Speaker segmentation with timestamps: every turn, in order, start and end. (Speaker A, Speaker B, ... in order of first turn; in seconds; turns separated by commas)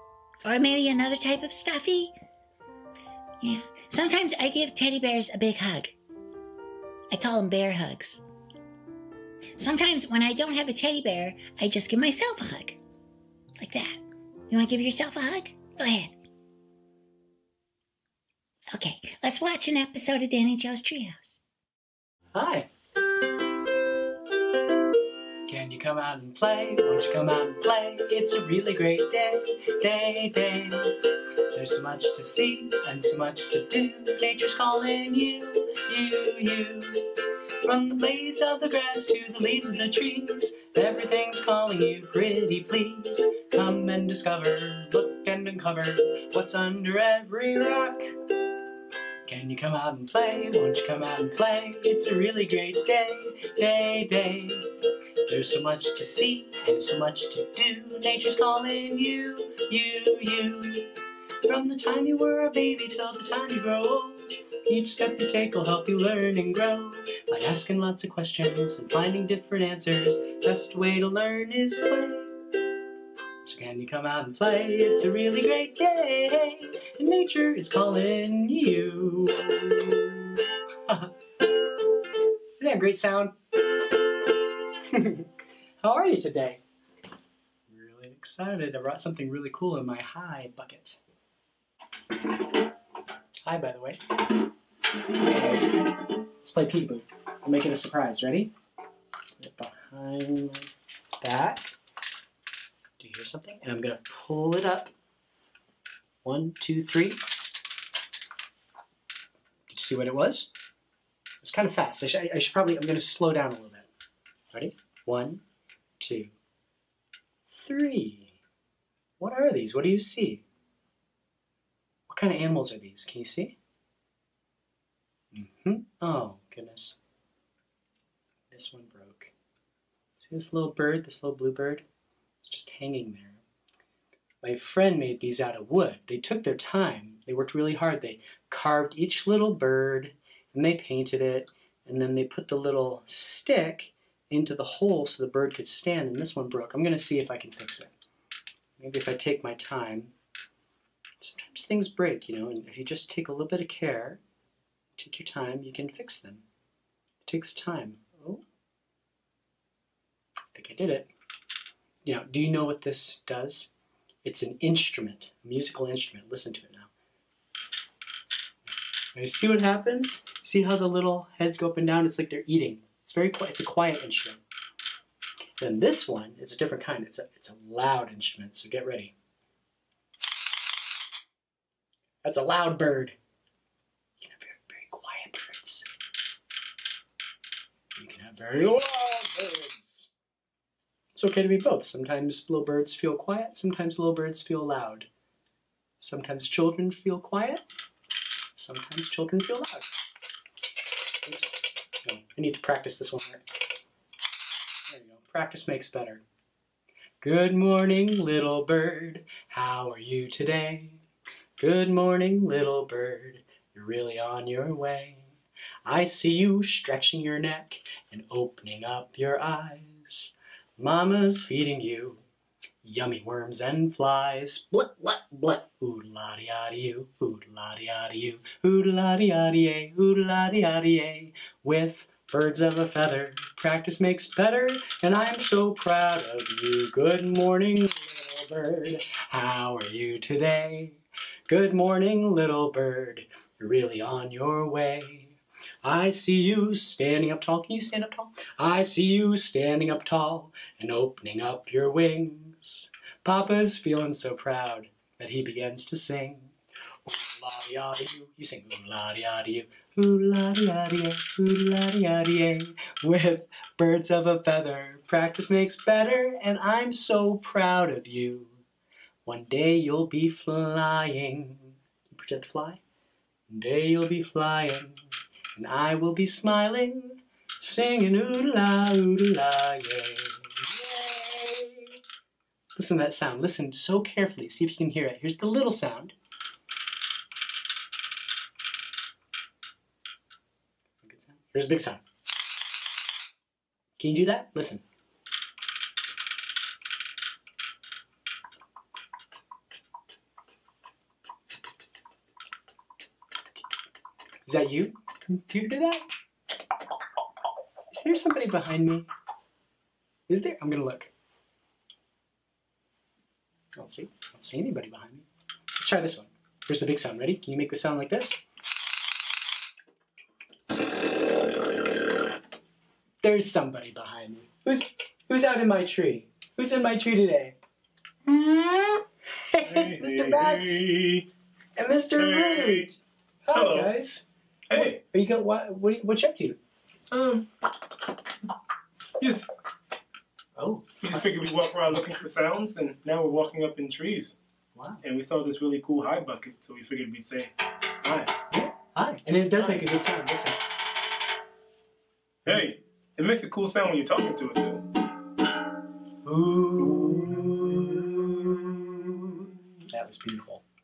Speaker A: 0.4-2.1, Speaker A: 3.4-5.9, Speaker A: 7.1-8.2, Speaker A: 9.6-12.8, Speaker A: 13.6-16.1, Speaker A: 18.7-21.4, Speaker B: 22.3-22.7, Speaker B: 25.4-30.9, Speaker B: 31.5-37.1, Speaker B: 37.6-48.1, Speaker B: 49.2-54.7, Speaker B: 55.3-60.9, Speaker B: 61.4-72.3, Speaker B: 73.4-80.4, Speaker B: 80.9-81.1, Speaker B: 82.6-83.3, Speaker B: 84.9-85.3, Speaker B: 85.8-86.6, Speaker B: 87.7-91.0, Speaker B: 93.4-94.0, Speaker B: 95.1-95.8, Speaker B: 96.4-98.5, Speaker B: 99.4-100.7, Speaker B: 101.2-101.7, Speaker B: 103.0-104.9, Speaker B: 106.2-107.2, Speaker B: 109.7-110.5, Speaker B: 111.4-113.9, Speaker B: 114.5-115.4, Speaker B: 116.0-116.3, Speaker B: 117.5-118.3, Speaker B: 119.2-120.4, Speaker B: 122.1-123.5, Speaker B: 125.3-127.0, Speaker B: 128.5-129.3, Speaker B: 130.2-131.8, Speaker B: 132.4-133.4, Speaker B: 134.4-147.9, Speaker B: 148.8-150.1, Speaker B: 151.2-154.2, Speaker B: 155.0-156.4, Speaker B: 157.2-158.4, Speaker B: 160.5-161.1, Speaker B: 162.0-163.7, Speaker B: 164.2-166.9, Speaker B: 169.1-174.4, Speaker B: 175.6-179.1, Speaker B: 182.2-183.2, Speaker B: 184.2-185.8, Speaker B: 187.9-190.1, Speaker B: 191.1-195.1, Speaker B: 196.0-197.6, Speaker B: 198.6-199.9, Speaker B: 201.2-203.4, Speaker B: 204.9-206.2, Speaker B: 207.2-211.0, Speaker B: 211.6-215.3, Speaker B: 215.8-222.2, Speaker B: 222.8-256.5, Speaker B: 257.1-268.6, Speaker B: 269.2-272.8, Speaker B: 273.5-275.0, Speaker B: 275.6-281.9, Speaker B: 282.8-286.1, Speaker B: 291.0-292.0, Speaker B: 294.0-294.8, Speaker B: 304.4-306.0, Speaker B: 307.9-309.1, Speaker B: 310.3-311.1, Speaker B: 313.7-318.4, Speaker B: 323.2-327.6, Speaker A: 328.2-329.0, Speaker B: 329.5-330.8, Speaker C: 329.6-331.2, Speaker B: 331.8-336.6, Speaker C: 332.2-332.9, Speaker C: 333.5-333.9, Speaker C: 334.7-335.0, Speaker C: 337.1-337.4, Speaker C: 339.2-339.5, Speaker B: 340.6-341.2, Speaker C: 341.0-344.4, Speaker B: 344.7-345.0, Speaker C: 345.0-348.3, Speaker B: 348.5-350.6, Speaker C: 352.4-354.9, Speaker B: 356.2-357.8, Speaker C: 356.9-357.6, Speaker B: 359.9-360.6